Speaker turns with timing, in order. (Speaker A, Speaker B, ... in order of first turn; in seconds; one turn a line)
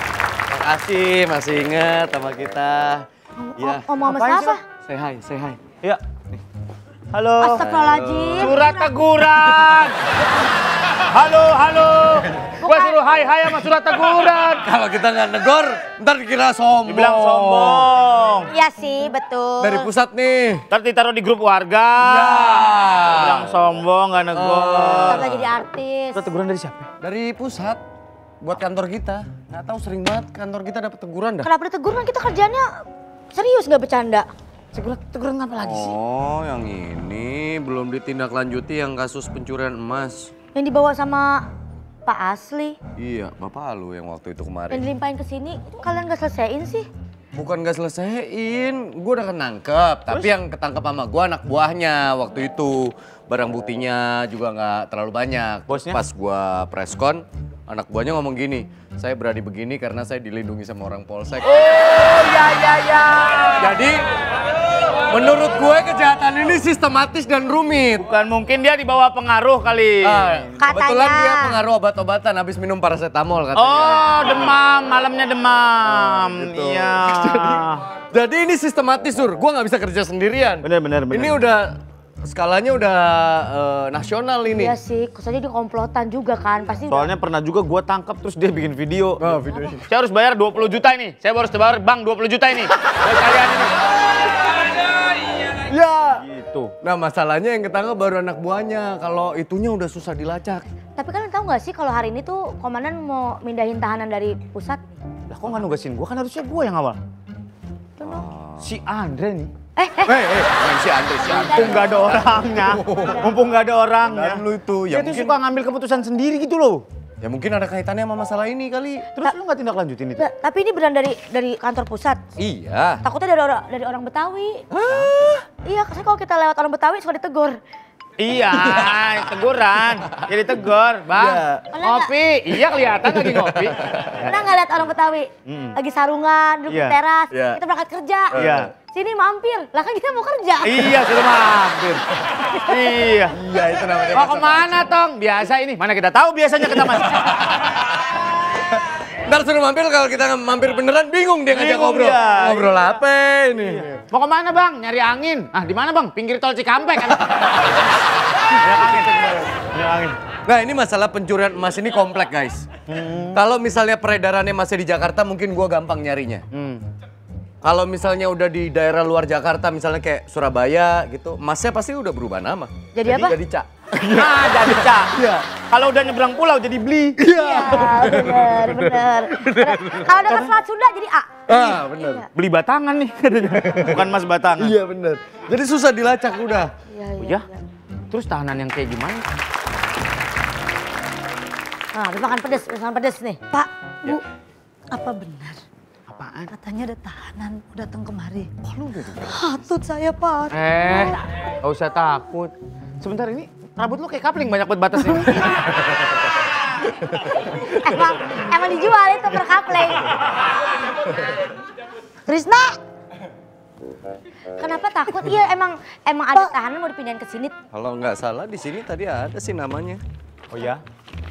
Speaker A: 0.5-3.0
Speaker B: 3.4-4.6
Speaker A: 3.6-3.8
Speaker C: 3.9-4.6
Speaker A: 4.8-5.6
Speaker C: 7.1-7.6
Speaker B: 7.4-8.9
Speaker A: 7.5-8.5
Speaker C: 8.4-10.0
Speaker A: 9.4-9.9
Speaker C: 11.0-14.7
Speaker B: 12.6-13.0
Speaker A: 14.2-17.9
Speaker C: 16.9-18.5
Speaker B: 18.5-19.9
Speaker A: 19.6-20.6
Speaker C: 20.7-25.2
Speaker A: 22.0-23.5
Speaker A: 24.3-25.5
Speaker B: 25.0-26.3
Speaker C: 26.1-26.9
Speaker A: 27.0-27.8
Speaker A: 28.4-31.5
Speaker B: 31.4-34.3
Speaker C: 34.7-36.0
Speaker A: 35.6-40.3
Speaker B: 40.5-41.5
Speaker B: 42.0-42.8
Speaker A: 43.0-44.9
Speaker B: 44.7-46.9
Speaker A: 47.3-62.0
Speaker C: 55.7-56.0
Speaker C: 61.4-63.8
Speaker A: 63.6-64.0
Speaker A: 65.0-68.1
Speaker C: 68.0-70.5
Speaker A: 70.0-74.5
Speaker B: 70.6-71.6
Speaker C: 73.5-77.8
Speaker A: 76.0-84.8
Speaker C: 80.6-81.4
Speaker B: 84.5-87.1
Speaker C: 86.9-93.7
Speaker A: 89.2-89.8
Speaker A: 95.4-96.2
Speaker C: 96.2-96.7
Speaker A: 96.8-100.6
Speaker B: 101.0-105.0
Speaker C: 105.3-107.0
Speaker B: 108.0-108.2
Speaker A: 108.0-108.7
Speaker C: 108.6-109.5
Speaker B: 109.8-110.2
Speaker A: 110.0-113.3
Speaker B: 111.2-112.1
Speaker C: 111.3-116.8
Speaker A: 114.1-115.4
Speaker A: 117.2-119.1
Speaker C: 119.1-120.2
Speaker B: 120.2-122.2
Speaker A: 122.4-123.0
Speaker B: 123.0-124.6
Speaker A: 124.7-125.4
Speaker B: 125.6-127.6
Speaker C: 128.2-134.3
Speaker A: 128.5-129.0
Speaker A: 131.2-131.7
Speaker B: 131.7-132.1
Speaker A: 133.1-134.2
Speaker B: 134.2-138.4
Speaker C: 135.5-135.8
Speaker C: 136.7-137.0
Speaker A: 137.3-137.6
Speaker A: 138.3-138.7
Speaker C: 138.3-138.7
Speaker B: 138.9-141.1
Speaker C: 140.6-142.0
Speaker A: 142.2-142.5
Speaker C: 142.7-143.4
Speaker A: 143.3-144.8
Speaker C: 144.1-147.2
Speaker A: 147.0-148.1
Speaker A: 148.6-154.0
Speaker C: 151.5-152.9
Speaker C: 153.6-157.5
Speaker C: 158.5-160.2
Speaker A: 160.4-162.7
Speaker C: 162.9-163.4
Speaker A: 163.3-166.4
Speaker C: 166.5-166.8
Speaker A: 167.6-175.5
Speaker B: 172.9-173.3
Speaker C: 174.0-177.2
Speaker A: 177.2-180.5
Speaker B: 177.3-182.3
Speaker A: 181.5-182.2
Speaker C: 182.3-184.8
Speaker A: 183.6-186.7
Speaker B: 186.9-187.6
Speaker C: 187.2-187.4
Speaker C: 188.1-189.2
Speaker B: 191.9-193.4
Speaker D: 193.5-194.2
Speaker D: 194.9-195.6
Speaker C: 196.1-196.5
Speaker D: 196.5-198.6
Speaker C: 198.6-199.4
Speaker D: 199.2-201.2
Speaker C: 200.5-205.8
Speaker D: 205.1-205.4
Speaker B: 207.6-210.0
Speaker D: 212.3-212.8
Speaker B: 214.6-217.5
Speaker A: 217.7-220.0
Speaker C: 220.5-220.8